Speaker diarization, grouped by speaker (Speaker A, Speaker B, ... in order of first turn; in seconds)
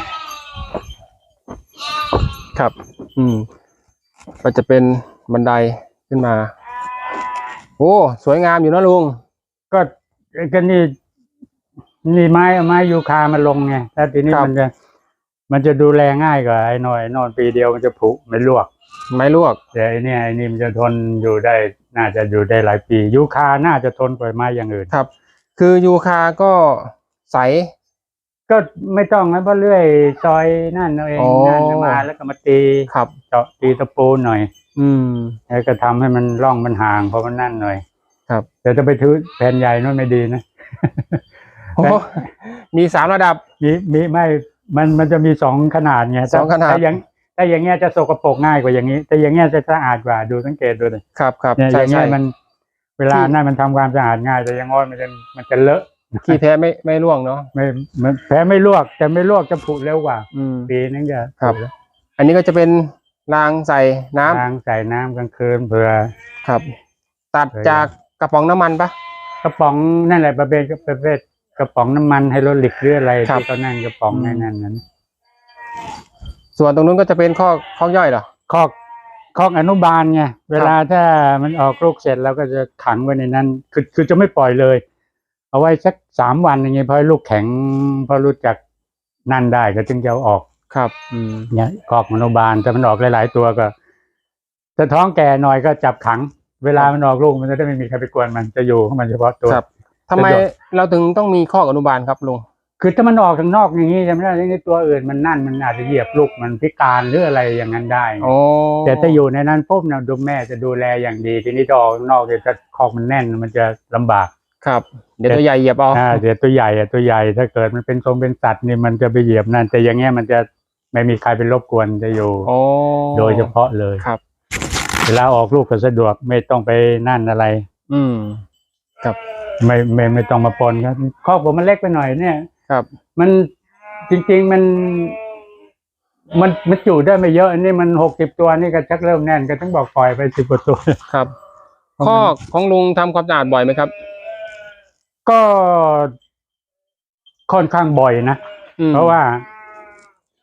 Speaker A: 2.5-3.5, 4.4-6.5, 7.8-9.2, 19.1-19.6, 24.9-27.7, 31.2-32.0, 34.8-35.4, 41.8-43.4, 46.3-46.8, 51.2-52.2, 56.2-57.5, 60.3-60.7, 62.2-64.5, 67.3-68.9, 74.1-74.5, 76.6-78.3, 90.7-91.5, 99.5-102.5, 108.2-109.2, 114.6-116.2, 122.5-124.2, 127.9-128.4, 142.0-143.9, 148.8-149.2
Speaker B: 9.7-10.9, 12.1-14.7, 15.5-18.7, 19.7-24.9, 28.5-34.5, 35.5-37.8, 38.6-41.2, 41.8-42.0, 43.6-51.0, 51.6-52.3, 53.0-56.4, 57.5-61.7, 64.3-66.1, 67.5-67.9, 69.4-74.8, 78.5-78.7, 79.3-84.8, 85.5-88.6, 89.3-90.5, 91.5-93.7, 94.8-99.6, 100.2-100.5, 102.8-108.3, 108.8-114.3, 115.9-122.5, 123.1-124.1, 125.1-127.6, 129.6-132.4, 133.2-133.5, 134.1-135.2, 136.3-141.0, 142.0-142.3, 145.3-146.1, 147.5-148.4, 148.9-149.4